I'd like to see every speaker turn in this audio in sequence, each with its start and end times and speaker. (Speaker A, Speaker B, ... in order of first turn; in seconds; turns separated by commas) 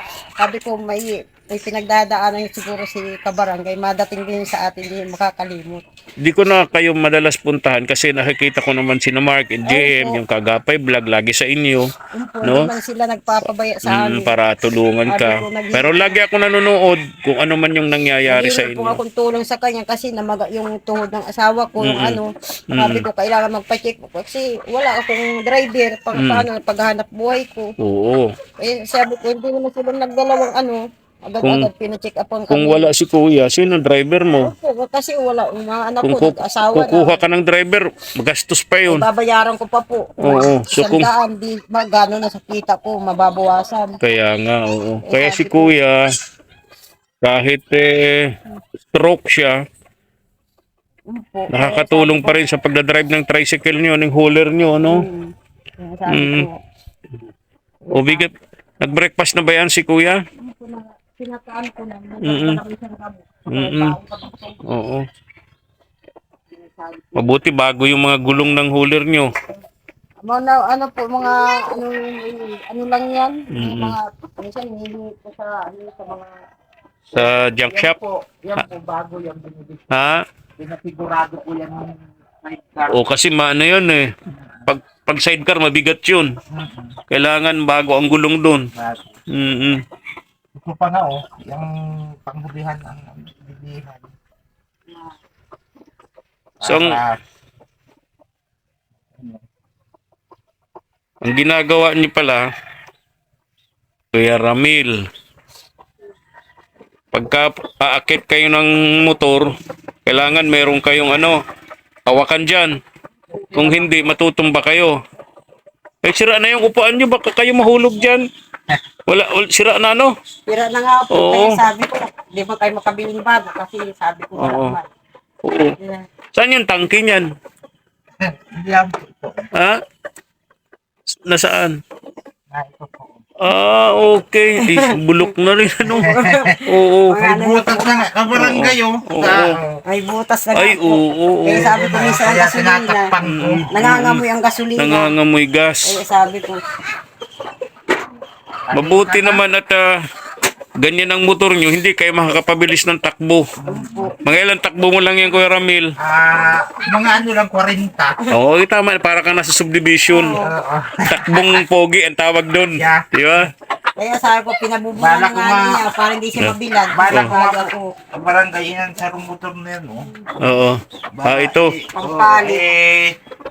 Speaker A: 0.4-5.8, Speaker B: 6.2-11.9, Speaker A: 9.7-10.2, Speaker A: 12.1-14.3, Speaker B: 12.4-12.7, Speaker B: 13.9-19.0, Speaker A: 15.1-16.2, Speaker A: 18.3-27.7, Speaker B: 21.8-22.2, Speaker B: 22.7-23.1, Speaker B: 26.1-26.4, Speaker B: 27.8-28.4, Speaker A: 28.6-32.9, Speaker B: 31.4-31.7, Speaker B: 32.5-34.5, Speaker A: 34.4-37.2, Speaker B: 36.0-39.1, Speaker A: 38.9-44.0, Speaker B: 40.2-41.1, Speaker B: 44.0-46.0, Speaker A: 45.1-45.8, Speaker B: 47.2-48.4, Speaker B: 48.9-49.6, Speaker A: 51.1-52.4, Speaker B: 51.5-55.1, Speaker A: 54.8-56.6, Speaker B: 56.1-56.5, Speaker A: 57.9-58.3, Speaker B: 57.9-60.2, Speaker A: 60.4-64.7, Speaker B: 62.2-62.6, Speaker B: 63.5-64.0, Speaker B: 64.7-65.1, Speaker A: 66.5-67.3, Speaker B: 67.2-69.3, Speaker A: 70.2-76.3, Speaker B: 73.5-73.9, Speaker B: 77.1-77.9, Speaker C: 77.1-79.9, Speaker B: 79.9-80.2, Speaker C: 80.6-83.0, Speaker B: 82.9-84.1, Speaker B: 84.7-86.3, Speaker C: 86.5-87.0, Speaker B: 87.1-88.7, Speaker C: 88.7-89.2, Speaker B: 89.3-89.8, Speaker C: 90.6-94.1, Speaker A: 94.9-95.2, Speaker C: 96.6-97.2, Speaker B: 96.7-97.0, Speaker C: 99.1-99.4, Speaker B: 101.2-102.5, Speaker B: 104.1-105.1, Speaker B: 107.1-109.5, Speaker B: 110.1-111.4, Speaker B: 112.1-112.8, Speaker C: 113.3-113.9, Speaker B: 113.5-115.0, Speaker B: 116.0-118.3, Speaker B: 119.1-120.1, Speaker A: 120.5-124.9, Speaker B: 121.1-121.6, Speaker B: 124.4-124.8, Speaker B: 125.4-125.8, Speaker A: 125.8-126.1, Speaker B: 126.3-127.3, Speaker C: 128.2-129.5, Speaker B: 129.6-129.8, Speaker B: 131.2-131.8, Speaker C: 132.5-133.2, Speaker B: 133.4-137.2, Speaker A: 134.6-135.3, Speaker A: 135.9-138.1, Speaker C: 135.9-136.7, Speaker C: 137.2-139.8, Speaker B: 138.3-139.6, Speaker A: 139.8-143.1, Speaker B: 140.6-141.7, Speaker C: 141.5-143.7, Speaker B: 143.2-144.2, Speaker A: 143.7-145.1, Speaker B: 144.8-145.8, Speaker A: 145.8-146.6, Speaker C: 148.7-149.4, Speaker B: 148.7-149.9, Speaker B: 150.8-153.5, Speaker C: 153.6-154.1, Speaker A: 153.7-154.2, Speaker B: 154.2-155.9, Speaker C: 156.0-158.2, Speaker B: 158.3-160.4, Speaker A: 160.1-160.5, Speaker C: 160.3-161.6, Speaker B: 161.1-163.5, Speaker C: 162.8-163.1, Speaker A: 164.0-167.9, Speaker C: 165.0-165.8, Speaker C: 166.9-170.1, Speaker B: 170.4-171.8, Speaker C: 171.1-173.2, Speaker A: 171.9-172.7